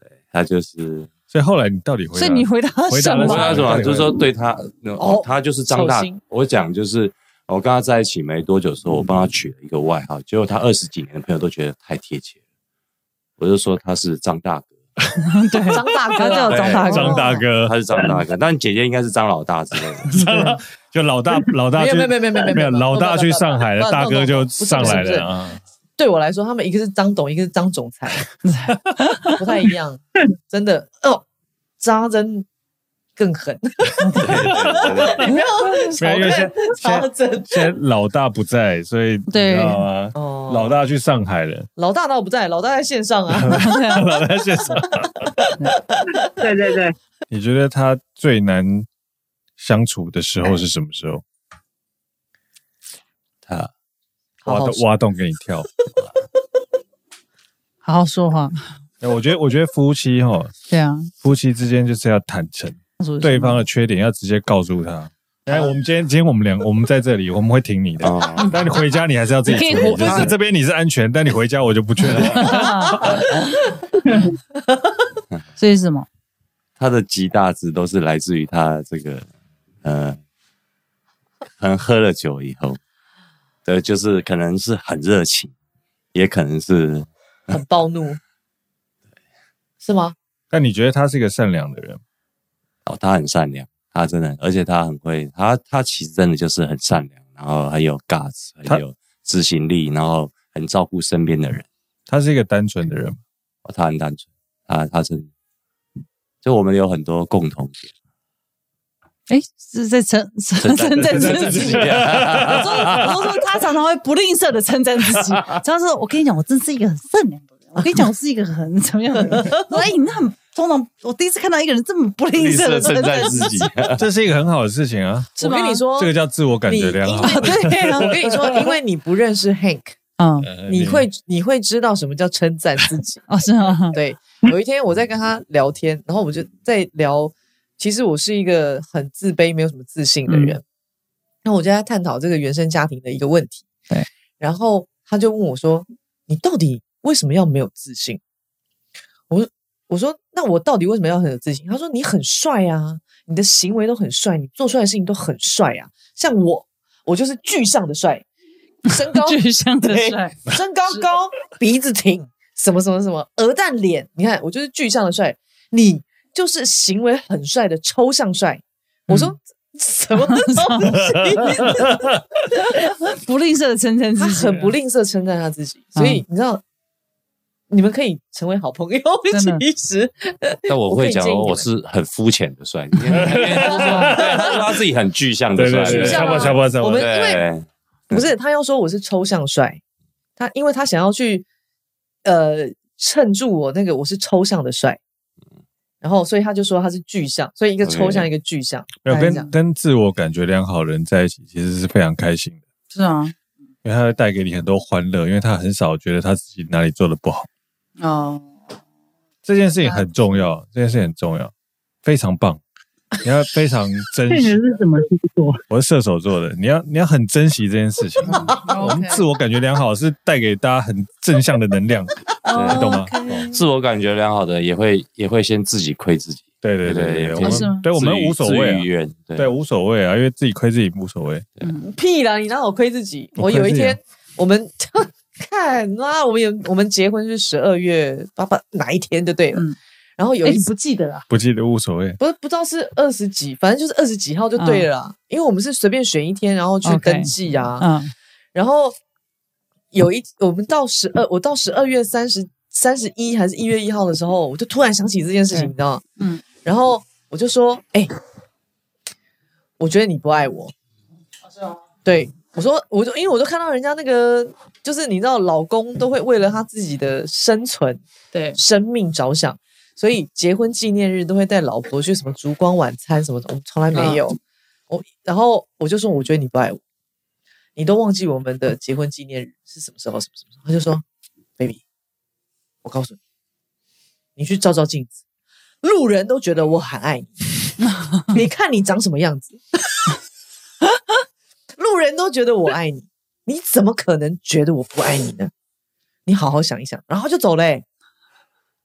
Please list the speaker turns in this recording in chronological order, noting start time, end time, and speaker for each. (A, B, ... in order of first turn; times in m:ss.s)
0:00.2-0:01.1 A
0:01.3-0:04.2 B
0:02.1-0:03.8 C
0:03.2-0:12.4 A
0:05.0-0:06.2 D
0:13.4-0:14.7 A
0:15.2-0:17.3 C
0:15.7-0:17.4 D
0:15.7-0:16.2 B
0:16.4-0:20.2 A
0:16.8-0:17.8 B
0:19.9-0:25.6 B
0:20.1-0:20.6 C
0:21.7-0:25.3 D
0:26.0-0:28.2 D
0:28.4-0:29.4 C
0:29.3-0:31.2 D
0:31.8-0:32.5 D
0:33.2-0:37.7 D
0:34.0-0:34.6 C
0:34.2-0:35.1 B
0:34.2-0:35.3 A
0:35.2-0:36.0 C
0:36.0-0:41.7 B
0:39.3-0:39.8 C
0:40.1-0:40.8 D
0:41.8-0:43.8 D
0:43.3-0:45.3 B
0:43.5-0:44.1 C
0:44.8-0:46.5 D
0:46.2-0:47.0 E
0:47.3-0:48.9 B
0:49.6-0:51.2 B
0:53.4-0:53.7 A
0:54.4-0:54.8 D
0:54.4-0:55.8 B
0:57.8-0:58.7 C
0:59.0-1:00.5 B
1:00.7-1:01.1 C
1:01.2-1:13.2 B
1:03.0-1:03.6 C
1:05.5-1:05.7 D
1:08.0-1:08.6 A
1:08.4-1:08.6 C
1:09.4-1:10.3 C
1:12.1-1:13.4 C
1:14.0-1:14.3 E
1:14.1-1:15.0 D
1:15.6-1:16.1 C
1:16.8-1:19.3 A
1:19.8-1:20.2 A
1:21.6-1:22.8 A
1:23.6-1:25.5 A
1:26.1-1:27.6 A
1:27.5-1:28.2 D
1:29.8-1:30.2 D
1:30.5-1:32.0 B
1:32.8-1:41.7 A
1:42.1-1:43.2 B
1:43.6-1:45.3 A
1:46.4-1:47.9 A
1:49.3-2:03.7 C
1:50.6-1:53.2 A
1:51.0-1:53.2 B
1:59.2-1:59.7 D
2:02.4-2:04.0 A
2:04.0-2:05.4 B
2:05.4-2:06.1 D
2:05.4-2:05.8 C
2:06.0-2:08.5 B
2:06.6-2:10.0 D
2:07.2-2:08.1 C
2:10.2-2:10.5 C
2:10.5-2:11.1 B
2:10.6-2:13.3 D
2:13.3-2:14.0 C
2:13.8-2:20.6 D
2:20.3-2:20.6 C
2:21.4-2:23.6 D
2:24.4-2:28.2 D
2:29.3-2:38.2 D
2:38.8-2:52.2 D
2:39.0-2:41.0 C
2:49.1-2:49.3 C
2:50.2-2:50.8 C
2:51.0-2:52.2 B
2:52.6-2:54.7 C
2:54.2-2:56.6 D
2:55.9-2:56.2 C
2:57.7-3:01.7 D
2:59.3-2:59.6 C
3:00.7-3:08.2 A
3:03.1-3:04.6 B
3:03.2-3:04.0 C
3:03.8-3:04.5 D
3:05.6-3:07.1 B
3:05.8-3:07.4 D
3:08.1-3:09.8 D
3:10.4-3:11.4 D
3:12.2-3:15.0 D
3:16.0-3:19.5 D
3:17.8-3:18.3 A
3:19.0-3:22.6 B
3:19.1-3:19.5 C
3:22.9-3:23.3 C
3:23.8-3:27.5 B
3:28.0-3:28.5 C
3:29.4-3:31.5 B
3:29.8-3:30.4 C
3:32.0-3:32.6 B
3:33.2-3:34.6 B
3:34.3-3:35.6 E
3:35.7-3:43.4 B
3:38.2-3:39.2 C
3:38.3-3:38.6 D
3:42.4-3:43.6 C
3:42.5-3:42.9 A
3:43.5-3:49.5 A
3:46.6-3:48.8 B
3:47.4-3:47.8 C
3:49.4-3:51.4 B
3:51.6-3:51.9 C
3:51.8-3:59.6 D
3:53.4-3:54.0 B
4:00.2-4:00.7 D
4:00.4-4:01.2 C
4:01.3-4:02.2 B
4:02.2-4:07.9 D
4:04.6-4:04.9 C
4:06.8-4:08.1 C
4:08.5-4:09.0 D
4:09.9-4:16.0 D
4:15.5-4:16.4 C
4:16.6-4:18.1 D
4:19.8-4:20.7 D
4:22.0-4:28.0 D
4:28.3-4:28.6 C
4:28.5-4:34.4 D
4:33.9-4:34.2 C
4:34.9-4:36.8 D
4:37.8-4:41.0 D
4:42.8-4:43.2 D
4:44.4-4:45.2 D
4:45.8-4:50.1 D
4:47.8-4:48.3 C
4:51.8-4:55.5 D
4:56.2-4:57.8 D